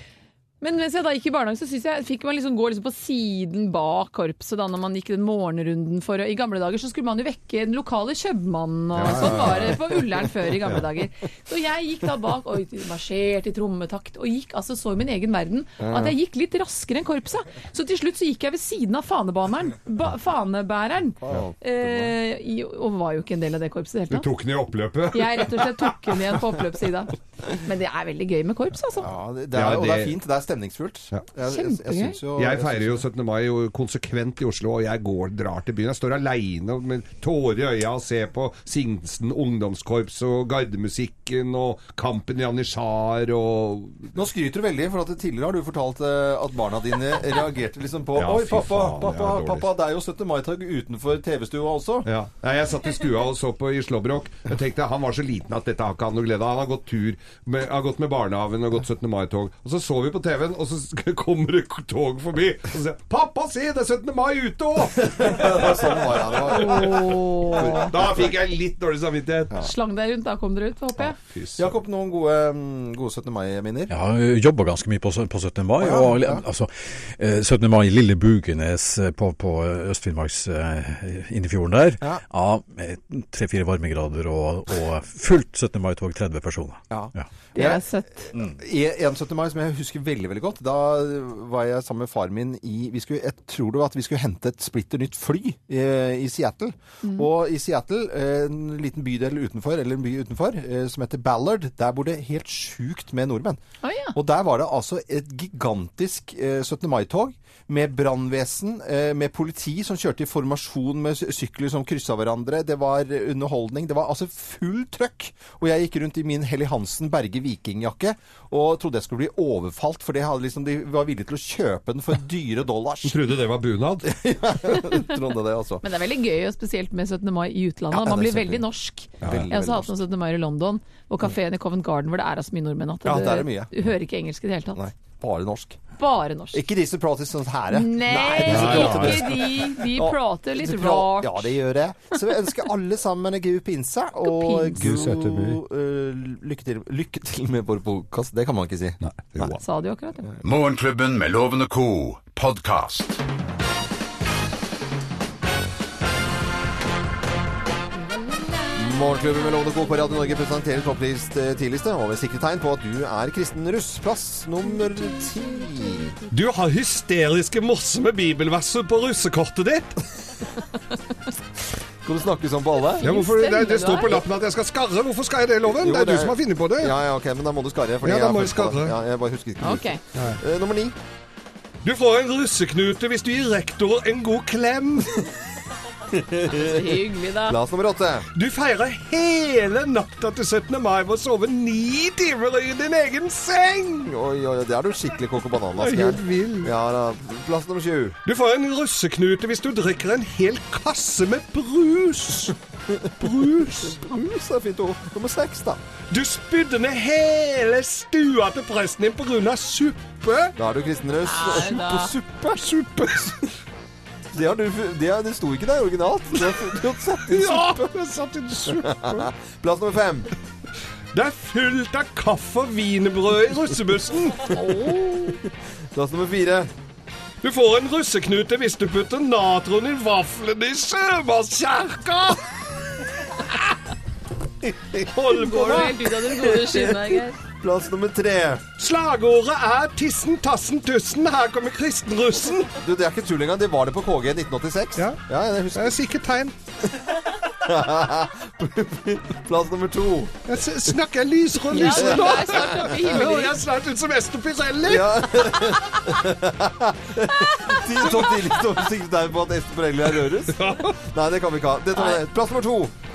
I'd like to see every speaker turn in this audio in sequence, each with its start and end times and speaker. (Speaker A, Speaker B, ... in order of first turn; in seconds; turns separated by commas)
Speaker A: 0.6-24.3, Speaker B: 9.0-9.8, Speaker C: 9.0-9.8, Speaker B: 15.8-16.1, Speaker B: 21.2-22.1, Speaker C: 24.1-26.0, Speaker A: 25.1-29.1, Speaker B: 29.0-33.1, Speaker C: 29.5-30.1, Speaker A: 31.4-32.2, Speaker C: 32.4-44.1, Speaker B: 44.1-52.1, Speaker C: 48.2-49.7, Speaker C: 52.0-69.6, Speaker B: 65.0-68.3, Speaker A: 66.5-67.9, Speaker A: 69.6-71.2, Speaker C: 71.3-71.7, Speaker B: 71.6-73.9, Speaker D: 73.9-87.2, Speaker B: 75.8-76.4, Speaker B: 86.9-87.8, Speaker A: 87.5-88.1, Speaker D: 88.3-88.6, Speaker B: 88.3-103.6, Speaker A: 103.8-104.2, Speaker B: 104.1-123.2, Speaker C: 123.0-124.1, Speaker B: 124.0-125.8, Speaker A: 125.8-134.8, Speaker B: 127.9-128.7, Speaker B: 129.2-130.0, Speaker C: 129.2-129.5, Speaker B: 133.1-133.7, Speaker B: 134.8-135.8, Speaker A: 136.0-136.6, Speaker B: 136.5-149.6, Speaker A: 137.7-141.6, Speaker C: 138.5-139.4, Speaker A: 144.2-144.8, Speaker C: 144.8-145.6, Speaker C: 149.0-149.6, Speaker A: 149.6-150.3, Speaker E: 150.4-153.2, Speaker B: 158.7-166.2, Speaker C: 166.3-170.0, Speaker B: 172.0-173.1, Speaker A: 173.0-174.2, Speaker C: 173.0-176.9, Speaker B: 175.7-181.0, Speaker C: 178.0-179.0, Speaker A: 179.6-180.0, Speaker C: 181.8-185.3, Speaker B: 186.1-188.3, Speaker A: 186.5-187.6, Speaker C: 188.3-194.0, Speaker B: 194.0-198.2, Speaker C: 195.8-196.7, Speaker C: 198.3-202.6, Speaker B: 202.9-205.8, Speaker C: 203.2-204.0, Speaker C: 206.1-210.6, Speaker B: 210.6-213.5, Speaker A: 211.2-212.1, Speaker C: 212.8-213.2, Speaker B: 214.3-217.9, Speaker C: 217.3-219.3, Speaker B: 218.7-220.3, Speaker C: 221.1-224.5, Speaker A: 224.4-225.4, Speaker B: 225.4-226.7, Speaker C: 227.4-232.6, Speaker B: 234.6-235.8, Speaker C: 235.1-235.9, Speaker A: 235.3-237.4, Speaker B: 236.3-238.7, Speaker C: 238.8-242.7, Speaker B: 242.8-246.0, Speaker C: 245.7-246.5, Speaker B: 247.1-250.3, Speaker C: 250.5-255.7, Speaker A: 251.7-253.6, Speaker B: 251.8-252.8, Speaker B: 254.8-262.9, Speaker C: 258.0-258.3, Speaker C: 260.5-261.0, Speaker A: 261.9-262.2